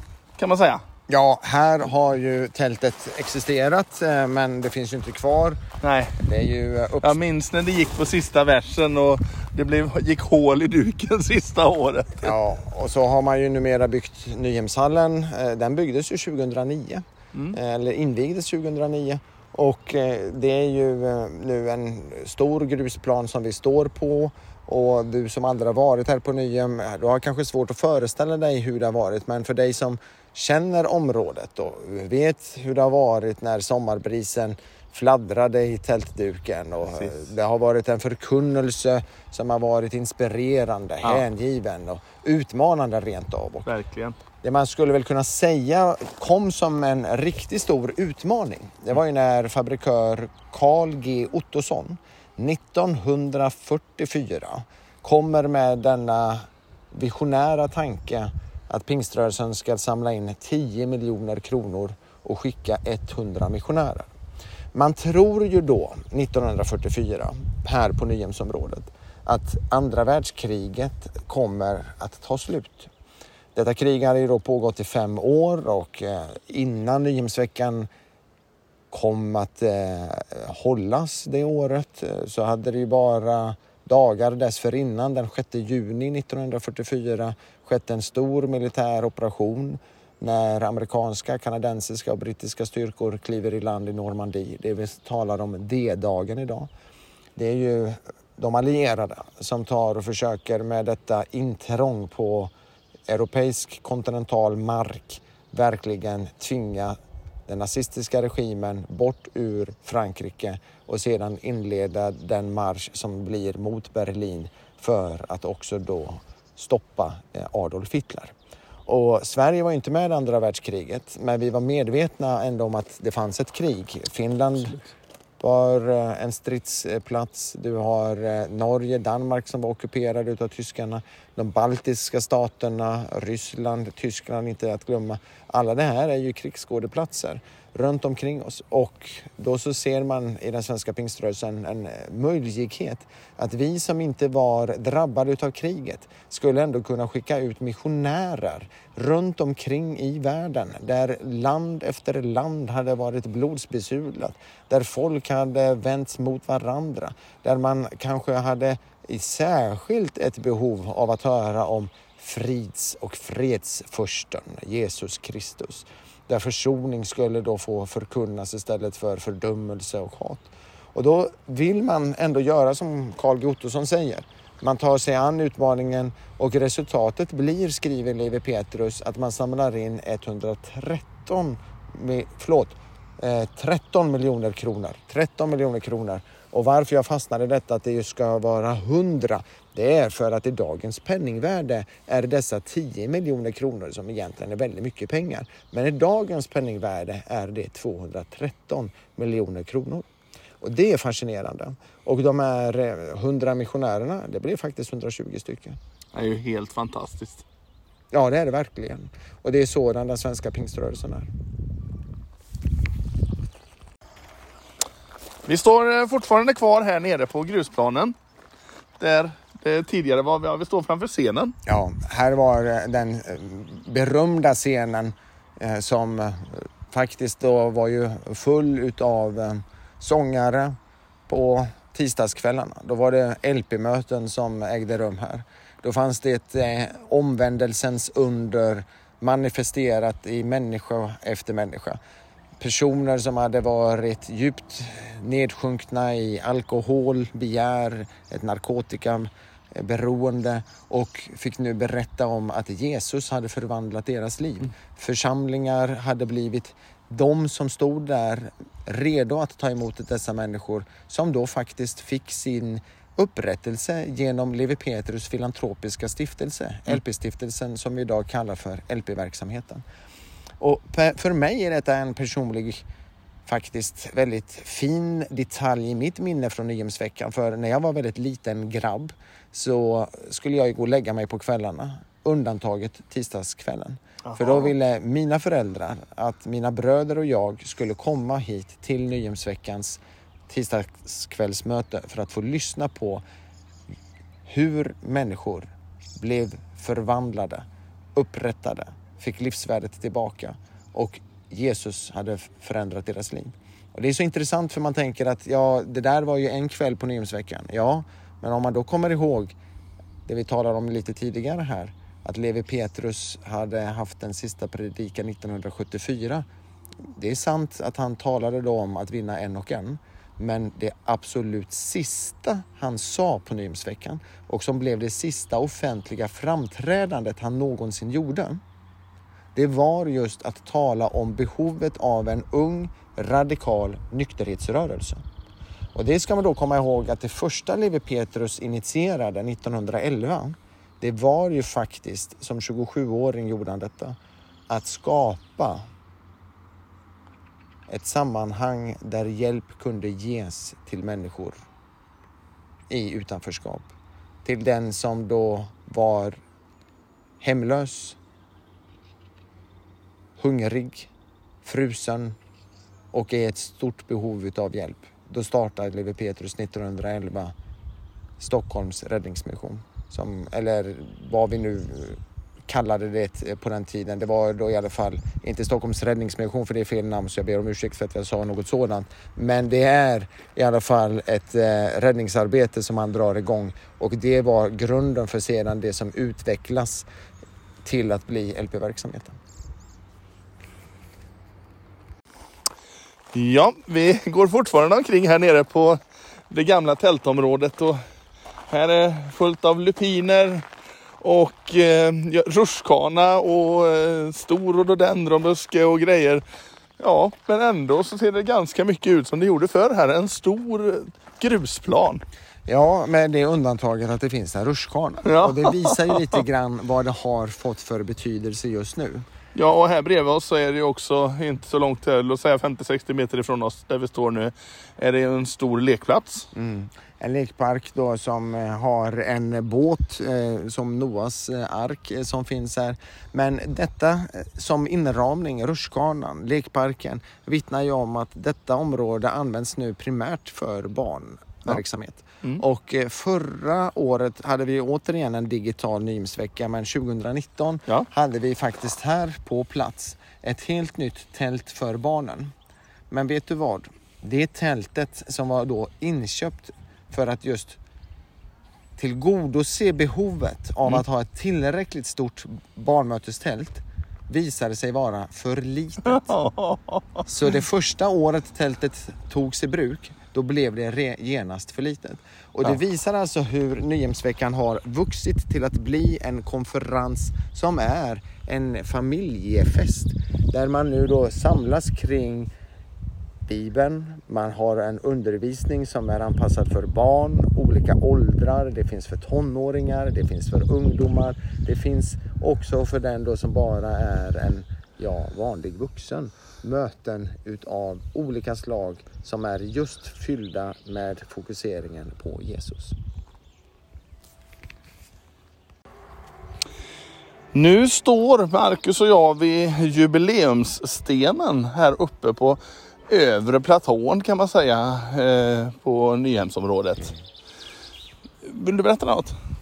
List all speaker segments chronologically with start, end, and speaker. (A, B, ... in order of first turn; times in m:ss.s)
0:00.4-0:00.8 A
0:01.1-0:05.6 B
0:05.8-0:06.2 A
0:06.2-0:07.2 B
0:07.0-0:12.3 A
0:12.2-0:43.7 B
0:43.6-0:44.2 A
0:44.4-1:04.1 B
1:04.7-1:12.9 B
1:13.5-1:17.9 B
1:18.9-1:36.7 B
1:37.4-1:42.5 B
1:43.1-1:47.0 B
1:47.5-1:58.3 B
1:58.8-2:04.8 B
2:05.4-3:20.0 B
3:20.6-3:25.8 B
3:26.1-3:27.4 A
3:28.1-3:31.3 B
3:35.4-3:38.1 A
3:39.0-3:41.5 A
3:41.6-3:50.8 B
3:51.3-4:02.0 B
4:02.6-4:29.8 B
4:30.6-4:32.8 B
4:33.4-4:53.2 B
4:44.2-4:44.7 A
4:54.4-5:09.6 B
5:10.2-5:16.4 B
5:17.1-5:28.6 B
5:29.5-5:35.2 B
5:35.9-5:44.2 B
5:44.7-5:45.8 B
5:47.9-5:51.6 B
5:52.9-5:53.9 B
5:54.4-5:56.4 B
5:57.4-5:58.2 B
6:00.4-6:01.1 B
6:01.6-6:02.4 B
6:03.1-6:07.5 B
6:08.4-6:27.1 B
6:27.8-6:29.4 B
6:33.3-6:38.0 A
6:38.7-6:40.6 A
6:41.2-6:46.4 A
6:47.0-6:52.2 A
6:52.6-6:59.2 B
6:55.2-6:56.4 A
6:59.5-7:06.5 A
7:06.5-7:32.5 B
7:33.1-7:37.8 B
7:39.0-7:46.4 B
7:46.0-7:47.2 A
7:47.2-8:02.5 B
8:03.5-8:23.0 B
8:27.5-8:37.1 A
8:38.4-8:39.4 A